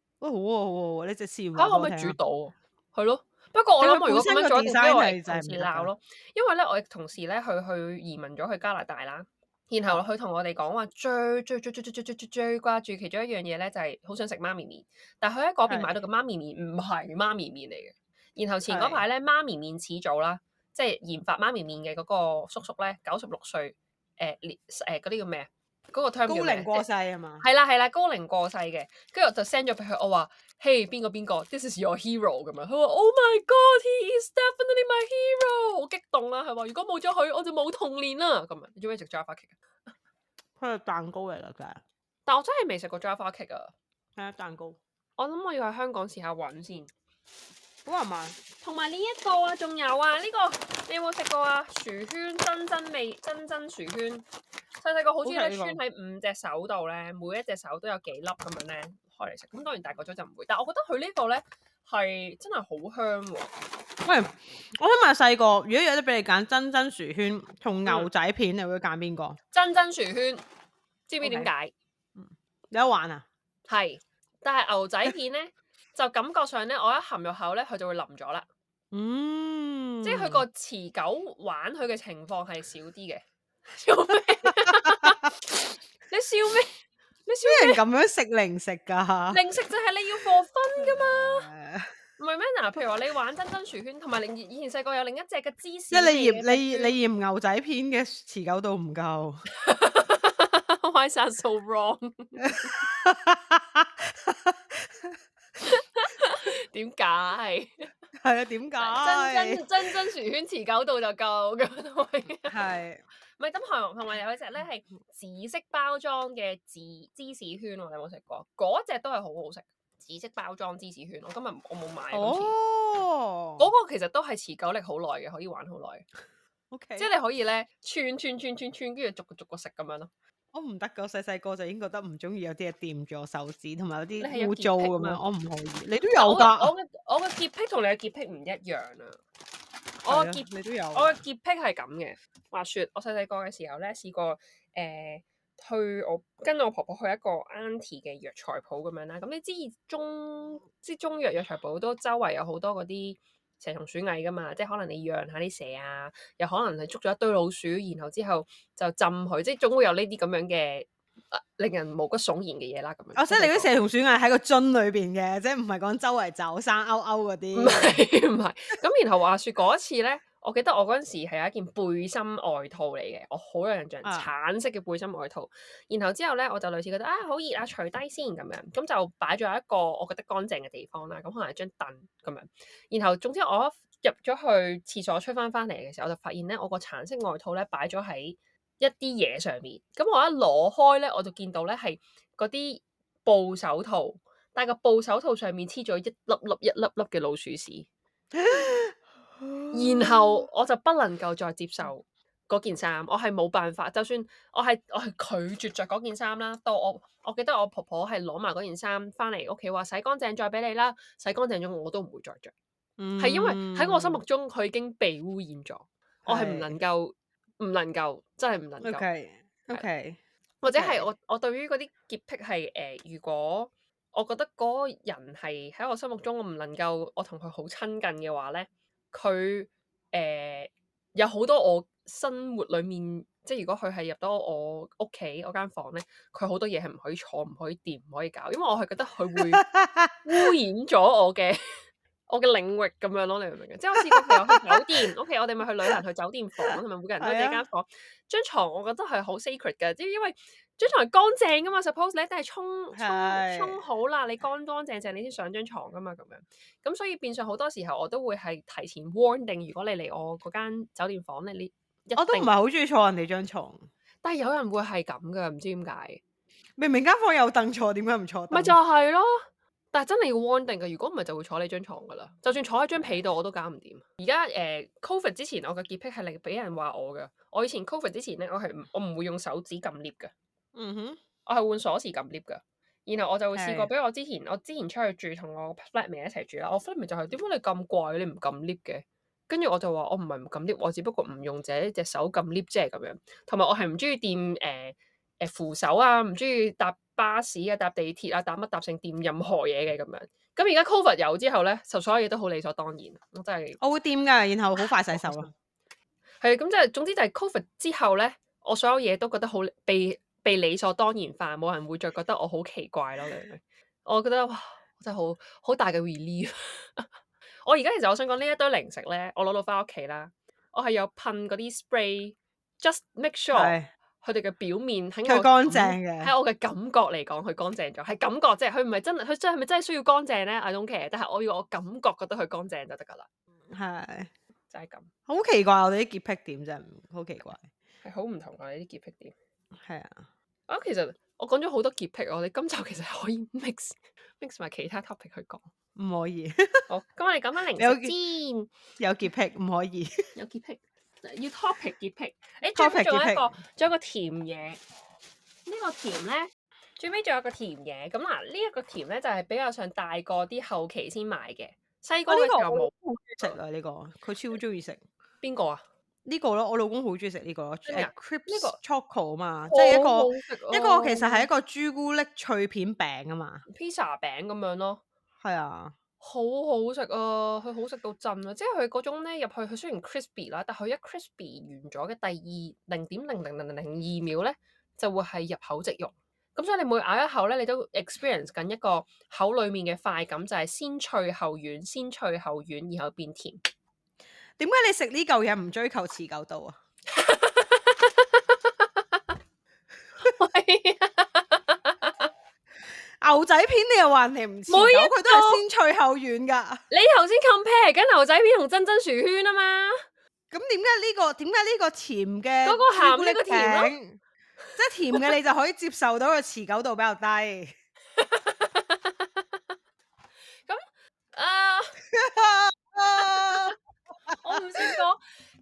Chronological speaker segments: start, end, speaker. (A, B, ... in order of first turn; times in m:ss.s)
0:00.2-0:02.2 A
0:01.6-0:26.8 B
0:03.8-0:05.9 A
0:15.6-0:16.0 A
0:18.7-0:19.0 A
0:26.3-0:27.4 A
0:27.4-0:39.6 B
0:40.6-0:41.8 A
0:42.2-0:43.7 B
0:44.2-0:44.8 A
0:45.2-0:46.9 B
0:47.8-0:48.4 A
0:48.6-0:54.2 B
0:54.8-1:03.5 B
0:55.2-0:55.8 A
1:04.0-1:09.4 A
1:09.5-1:10.4 B
1:11.1-1:11.7 B
1:11.2-1:11.5 A
1:12.2-1:13.2 A
1:13.7-1:18.5 B
1:18.9-1:20.4 A
1:20.0-1:25.3 B
1:24.6-1:25.2 A
1:26.1-1:26.7 B
1:27.2-1:27.8 B
1:27.4-1:29.4 A
1:29.3-1:31.5 B
1:30.8-1:31.9 A
1:32.2-1:37.0 B
1:35.9-1:39.4 A
1:39.6-1:42.8 B
1:42.4-1:45.1 A
1:45.6-1:47.9 B
1:48.2-1:49.6 A
1:48.8-1:52.6 B
1:52.5-1:53.0 A
1:53.4-2:02.5 B
2:02.1-2:03.7 A
2:03.6-2:06.0 B
2:06.7-2:07.1 A
2:07.0-2:10.1 B
2:10.5-2:16.7 A
2:14.2-2:15.2 B
2:16.1-2:19.2 B
2:20.0-2:43.7 B
2:20.0-2:21.2 A
2:43.1-2:48.0 A
2:47.5-3:17.9 B
2:54.0-2:54.3 A
3:18.3-3:20.4 A
3:19.7-3:32.5 B
3:33.0-3:34.2 A
3:33.2-3:39.0 B
3:36.2-3:36.7 A
3:38.8-3:40.2 A
3:40.6-3:59.6 B
3:40.7-3:41.0 A
3:59.5-4:00.1 A
4:00.2-4:22.5 B
4:04.0-4:04.8 A
4:07.2-4:07.6 A
4:12.9-4:13.8 A
4:22.2-4:23.8 A
4:24.2-4:26.2 B
4:26.8-4:28.8 A
4:28.5-4:40.3 B
4:40.7-4:41.2 A
4:41.4-5:03.8 B
4:43.5-4:43.9 A
5:03.8-5:05.5 A
5:05.1-5:05.5 B
5:06.4-5:17.1 B
5:17.6-5:33.3 B
5:23.5-5:23.9 A
5:25.2-5:26.3 A
5:33.7-5:34.3 A
5:34.7-5:35.1 B
5:35.3-5:37.7 A
5:38.0-5:39.3 B
5:39.8-5:40.2 A
5:40.7-5:45.7 B
5:46.0-5:46.9 A
5:46.9-5:48.7 B
5:47.8-5:48.1 A
5:49.0-5:50.3 A
5:50.3-5:54.8 B
5:52.7-5:53.5 A
5:55.6-6:02.9 B
6:02.3-6:05.0 A
6:05.4-6:05.8 B
6:06.2-6:13.6 A
6:07.9-6:08.8 B
6:09.7-6:11.5 B
6:13.7-6:15.0 B
6:15.4-6:15.9 A
6:16.2-6:33.6 B
6:34.6-6:36.8 A
6:37.1-6:39.2 B
6:40.2-6:42.3 B
6:43.2-6:46.8 A
6:44.7-6:45.6 B
6:46.9-6:50.0 B
6:50.5-6:54.2 A
6:52.6-6:53.9 B
6:54.8-6:57.7 A
6:58.2-6:59.6 B
7:01.3-7:02.0 B
7:02.1-7:03.7 A
7:03.2-7:03.7 B
7:04.4-7:05.2 B